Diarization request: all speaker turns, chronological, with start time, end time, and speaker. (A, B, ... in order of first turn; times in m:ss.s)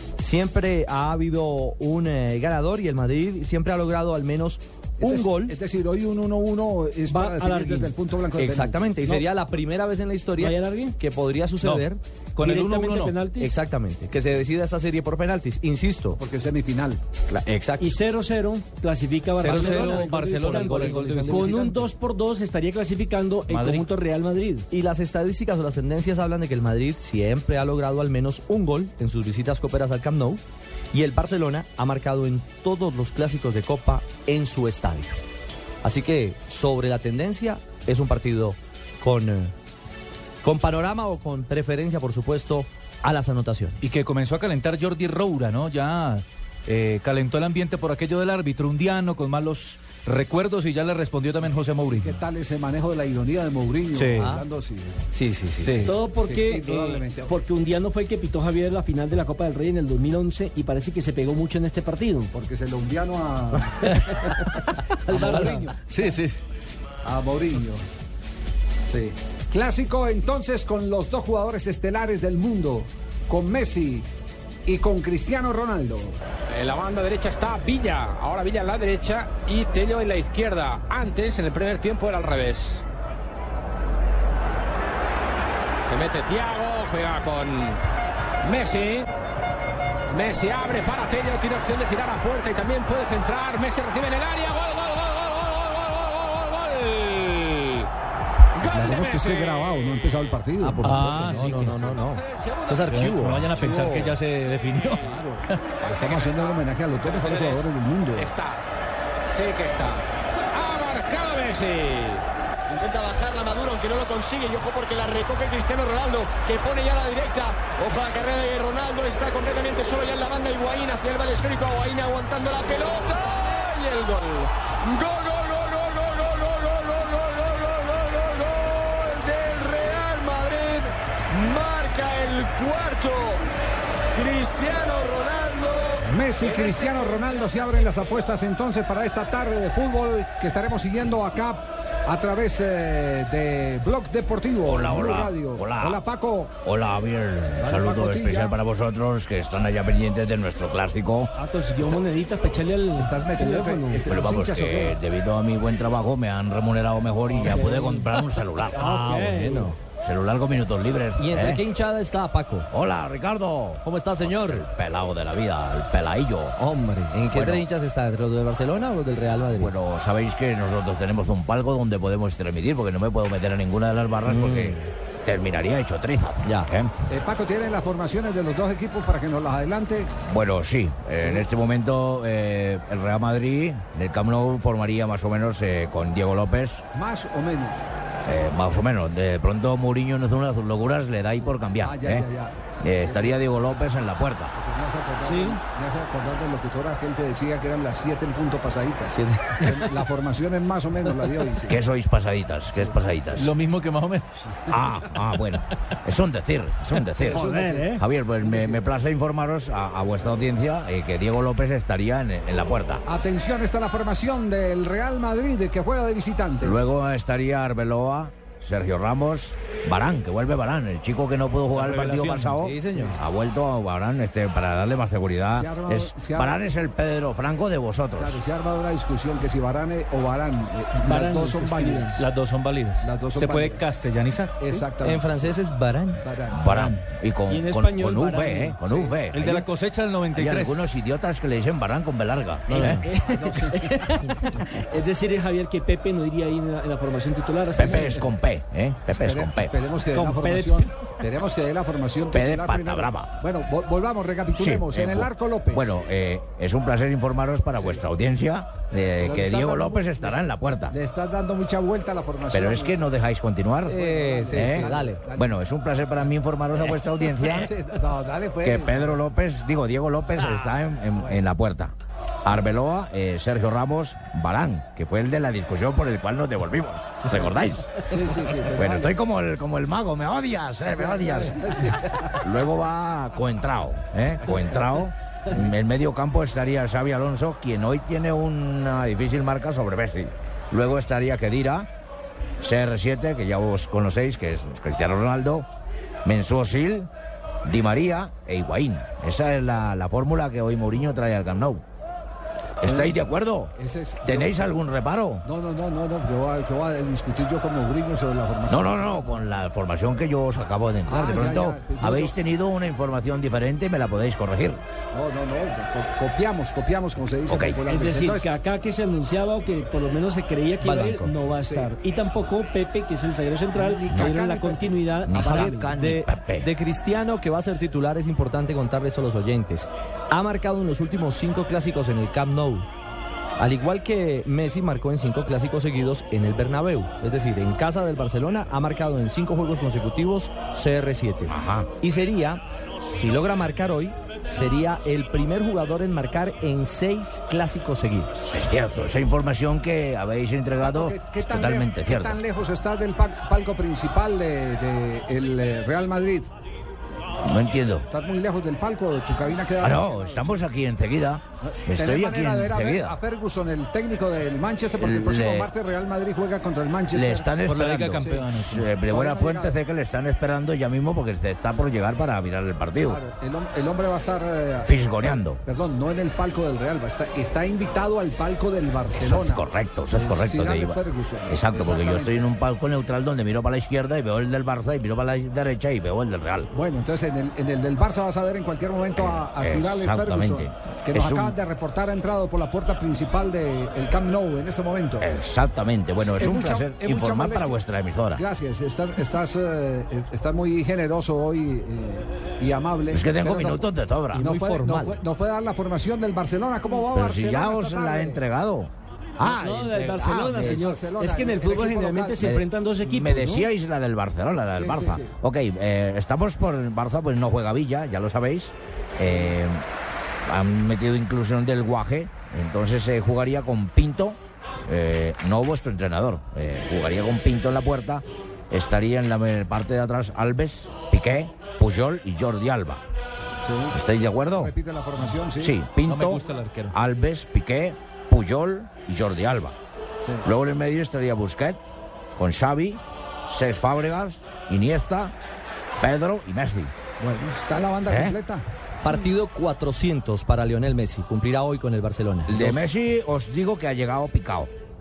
0:00.2-0:05.6 A
0:05.0-0:08.9 B
0:07.1-0:08.0 C
0:08.4-0:12.0 A
0:09.0-0:09.3 C
0:10.4-0:11.0 C
0:11.6-0:13.2 D
0:12.4-0:13.6 C
0:13.4-0:16.2 A
0:16.2-0:17.0 B
0:17.3-0:17.9 A
0:17.8-0:24.7 C
0:19.4-0:21.8 D
0:19.5-0:21.6 A
0:23.5-0:23.9 D
0:24.7-0:35.2 A
0:35.8-0:39.5 A
0:40.4-0:44.0 A
0:43.8-0:52.2 D
0:51.8-0:55.0 B
0:54.0-0:54.4 A
0:54.0-0:54.3 D
0:55.1-0:55.9 A
0:55.6-0:56.0 D
0:55.8-1:02.3 C
0:56.1-0:57.4 B
1:02.3-1:04.1 B
1:03.8-1:06.4 D
1:05.1-1:05.5 C
1:05.1-1:05.8 B
1:07.0-1:07.8 B
1:08.9-1:14.1 B
1:14.7-1:16.2 B
1:16.5-1:22.8 E
1:25.9-1:27.8 E
1:28.4-1:29.1 E
1:30.1-1:37.9 E
1:38.6-1:39.9 E
1:38.6-1:41.2 B
1:40.6-1:44.2 A
1:40.8-1:41.8 D
1:41.6-1:42.6 E
1:42.8-1:46.2 D
1:43.8-1:45.2 E
1:45.0-1:48.3 B
1:45.8-1:47.6 E
1:48.2-1:48.6 E
1:49.3-1:52.2 E
1:52.7-2:13.4 F
2:14.1-2:17.4 F
2:16.0-2:26.6 B
2:24.6-2:26.0 G
2:26.6-2:31.3 G
2:27.6-2:28.6 B
2:31.4-2:34.1 C
2:33.0-2:35.0 B
2:34.1-2:38.9 G
2:37.3-2:38.0 C
2:38.8-2:39.8 C
2:38.8-2:39.8 A
2:40.0-2:41.6 G
2:41.2-2:42.7 A
2:42.7-2:46.6 G
2:43.8-2:44.7 A
2:46.6-2:49.7 A
2:47.3-2:47.7 G
2:49.6-2:56.9 G
2:54.2-2:54.9 A
2:57.1-3:00.1 B
3:00.2-3:06.8 G
3:01.2-3:01.5 B
3:06.9-3:07.8 B
3:08.2-3:12.3 G
3:11.4-3:13.4 B
3:12.8-3:14.5 G
3:14.6-3:21.8 B
3:15.2-3:15.6 C
3:19.1-3:19.8 A
3:21.7-3:23.5 G
3:22.7-3:23.1 B
3:23.4-3:24.6 D
3:24.7-3:33.0 G
3:27.2-3:28.8 B
3:27.4-3:28.0 C
3:33.1-3:36.8 B
3:36.6-3:48.4 G
3:41.7-3:42.6 D
3:42.6-3:43.2 A
3:45.5-3:46.6 B
3:48.2-3:52.3 B
3:51.0-3:52.2 C
3:52.2-3:54.8 D
3:53.0-3:53.9 B
3:54.6-3:55.6 B
3:55.0-3:56.2 A
3:56.2-3:57.0 B
3:56.5-3:59.5 G
3:57.5-3:58.8 C
3:58.8-3:59.2 B
3:59.3-4:01.0 D
4:00.3-4:03.1 G
4:02.7-4:03.1 A
4:02.8-4:08.3 C
4:03.3-4:04.4 B
4:07.8-4:09.8 G
4:09.1-4:16.0 B
4:10.1-4:10.9 C
4:12.3-4:13.3 G
4:14.6-4:21.0 G
4:17.7-4:18.0 B
4:19.2-4:23.2 B
4:22.5-4:24.0 G
4:23.9-4:25.2 A
4:23.9-4:25.6 B
4:24.5-4:27.7 G
4:27.5-4:29.1 B
4:28.6-4:31.9 G
4:32.4-4:51.9 G
4:38.0-4:39.1 B
4:40.9-4:42.4 B
4:44.5-4:44.8 B
4:52.6-4:55.7 G
4:56.2-4:57.1 G
4:57.6-5:01.8 G
5:02.8-5:03.7 G
5:02.8-5:03.2 B
5:03.8-5:04.8 B
5:04.2-5:05.5 G
5:05.4-5:09.4 B
5:08.7-5:14.8 G
5:11.1-5:12.4 B
5:15.1-5:18.5 B
5:17.5-5:17.8 G
5:17.9-5:25.9 C
5:20.8-5:21.4 A
5:21.6-5:21.9 B
5:23.8-5:25.8 B
5:24.1-5:24.4 G
5:25.2-5:26.7 G
5:25.4-5:32.9 A
5:33.6-5:48.5 A
5:41.5-5:41.9 G
5:48.5-5:52.4 G
5:50.8-5:56.5 B
5:57.4-5:58.1 G
5:58.1-6:00.6 B
5:59.8-6:03.2 G
6:01.6-6:07.6 B
6:05.0-6:05.7 G
6:07.1-6:13.2 G
6:07.6-6:08.9 D
6:08.2-6:09.8 B
6:13.0-6:22.4 B
6:14.8-6:15.6 G
6:19.1-6:26.7 G
6:26.7-6:35.3 B
6:29.2-6:31.6 G
6:35.2-6:38.4 G
6:36.2-6:37.8 B
6:38.4-6:48.4 B
6:43.1-6:44.5 G
6:44.4-6:45.2 A
6:47.1-6:50.8 G
6:49.4-6:53.7 C
6:50.1-6:52.5 B
6:52.4-6:59.8 G
6:54.8-6:55.3 B
7:00.5-7:13.0 G
7:13.6-7:14.0 B
7:13.9-7:14.7 G
7:14.6-7:15.8 B
7:15.6-7:19.8 G
7:16.0-7:16.9 D
7:20.4-7:25.3 G
7:26.0-7:26.9 G
7:27.2-7:28.6 B
7:28.1-7:28.4 G
7:29.0-7:32.9 A
7:32.5-7:34.7 G